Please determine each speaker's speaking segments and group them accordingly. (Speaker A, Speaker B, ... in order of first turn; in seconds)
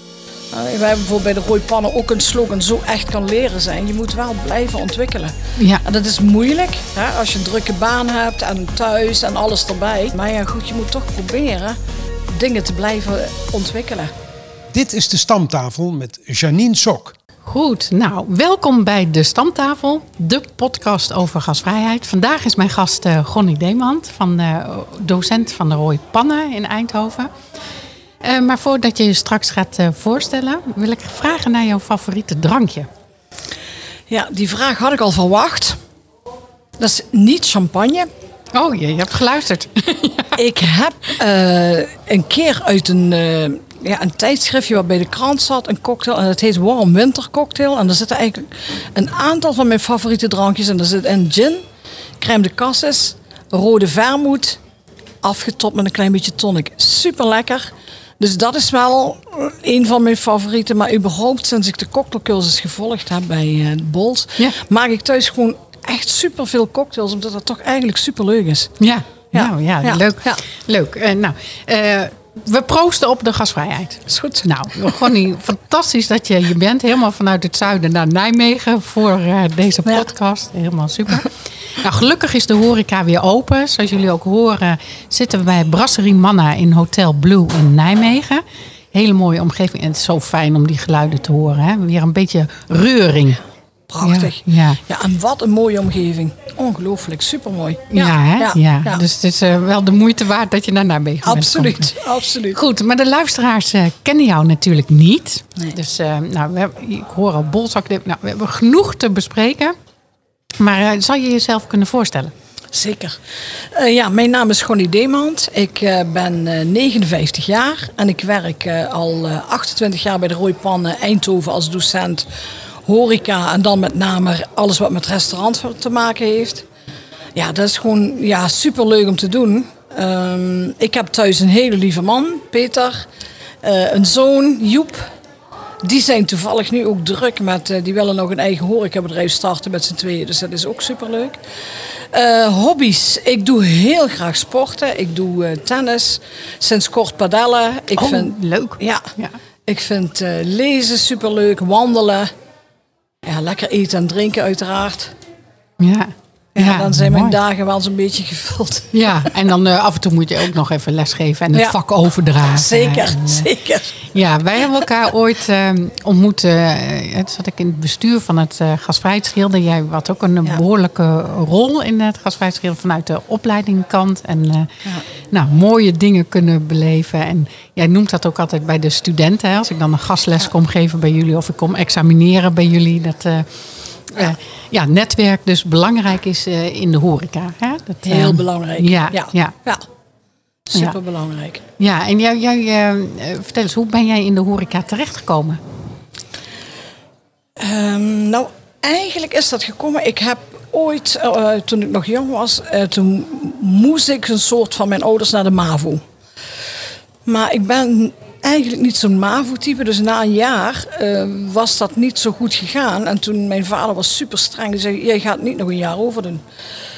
Speaker A: 0.5-11.8, 12.3-14.1, 34.1-35.8, 36.8-38.1, 40.4-51.6, 52.2-54.6, 55.2-68.7, 69.3-70.4, 74.1-75.1, 93.9-99.0, 101.2-102.6, 112.7-122.3, 122.8-126.7, 127.3-133.1, 133.6-135.1, 135.8-141.4, 142.1-149.1, 149.7-152.3, 153.2-155.1, 156.6-159.4, 162.5-164.0, 188.1-189.9, 190.7-191.6, 197.6-206.0, 207.3-216.4
Speaker B: 5.6-5.8, 17.4-27.3, 28.2-32.9, 38.5-40.4, 68.8-93.4, 94.0-94.8, 97.9-102.0, 102.5-109.8, 110.6-112.3, 148.0-149.4, 155.8-157.4, 158.9-163.5, 164.0-174.7, 175.3-189.6, 191.8-195.6
Speaker C: 14.7-17.1